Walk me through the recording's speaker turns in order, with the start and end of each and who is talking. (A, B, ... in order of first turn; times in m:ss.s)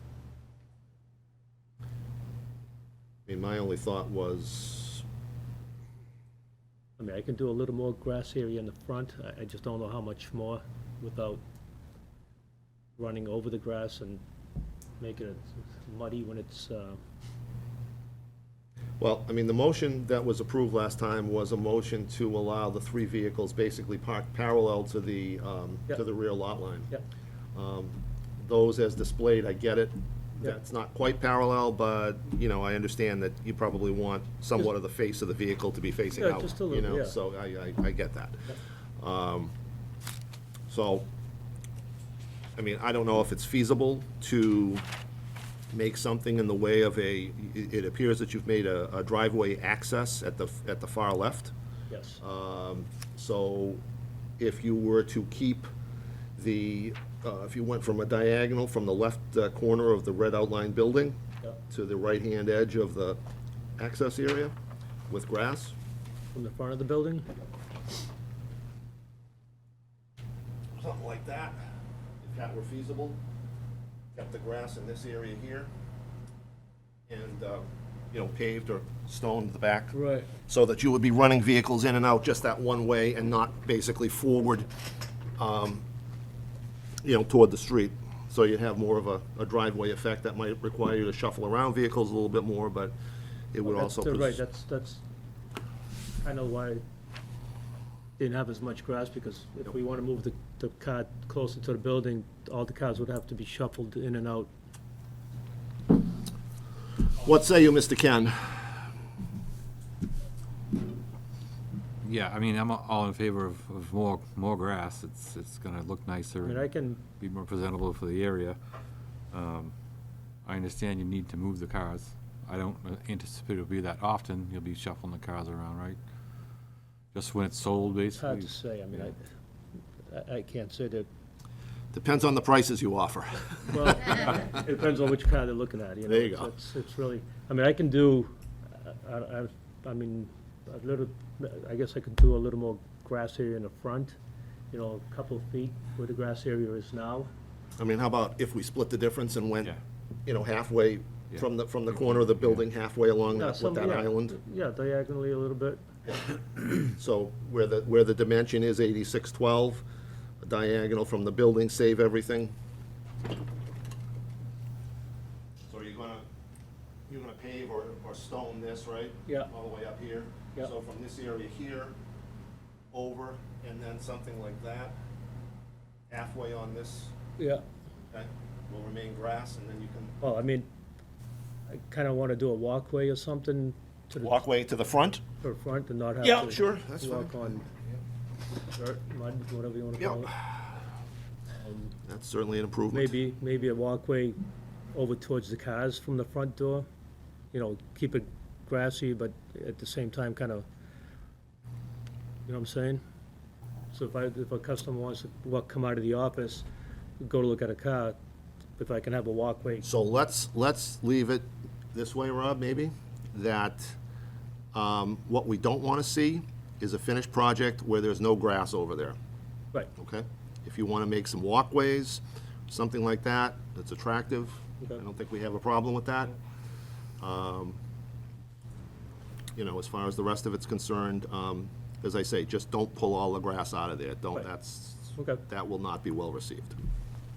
0:03.3-0:05.0 A
0:07.0-0:11.4 B
0:13.0-0:14.2 B
0:15.0-0:17.0 B
0:19.0-0:26.9 A
0:27.5-0:39.5 A
0:36.1-0:37.1 B
0:40.7-0:41.1 A
0:42.6-0:44.8 A
0:45.7-0:51.5 A
0:51.9-0:52.2 B
0:52.2-0:53.8 A
0:54.4-0:55.7 A
0:56.4-1:01.2 A
1:01.7-1:03.2 A
1:03.8-1:04.5 A
1:05.1-1:05.7 A
1:06.3-1:07.3 B
1:10.8-1:11.6 A
1:12.2-1:13.2 A
1:14.1-1:15.7 A
1:17.1-1:19.9 A
1:19.9-1:20.3 B
1:20.5-1:24.7 A
1:25.4-1:25.8 A
1:27.0-1:32.9 A
1:33.5-1:34.4 A
1:33.6-1:35.0 B
1:36.2-1:36.8 B
1:38.2-1:44.5 B
1:47.2-1:48.8 A
1:52.0-1:56.6 C
1:56.4-1:57.0 B
1:57.2-1:58.6 C
1:59.3-1:59.7 C
2:00.4-2:06.0 C
2:07.1-2:09.0 C
2:08.2-2:09.2 B
2:10.1-2:11.1 B
2:11.9-2:14.3 A
2:13.7-2:24.2 B
2:16.0-2:16.5 A
2:24.7-2:27.3 B
2:27.8-2:34.4 A
2:33.3-2:35.8 B
2:36.7-2:39.8 A
2:40.4-2:42.5 A
2:45.7-2:46.2 A
2:47.1-2:51.9 A
2:52.9-2:54.9 A
2:56.1-2:57.1 A
2:57.4-2:57.6 B
2:58.1-3:00.2 A
3:00.2-3:00.7 B
3:01.7-3:04.4 B
3:04.2-3:05.2 A
3:05.4-3:07.6 B
3:06.2-3:07.9 A
3:08.7-3:10.3 B
3:10.0-3:10.3 A
3:11.6-3:11.9 B
3:12.0-3:13.1 A
3:12.9-3:14.4 B
3:14.9-3:16.8 B
3:17.5-3:20.6 B
3:22.5-3:23.0 B
3:23.9-3:26.6 B
3:27.2-3:28.2 B
3:28.8-3:29.8 B
3:29.8-3:34.0 A
3:34.7-3:39.2 A
3:39.9-3:46.3 A
3:47.2-3:47.8 A
3:49.5-3:56.8 A
3:55.2-3:55.4 B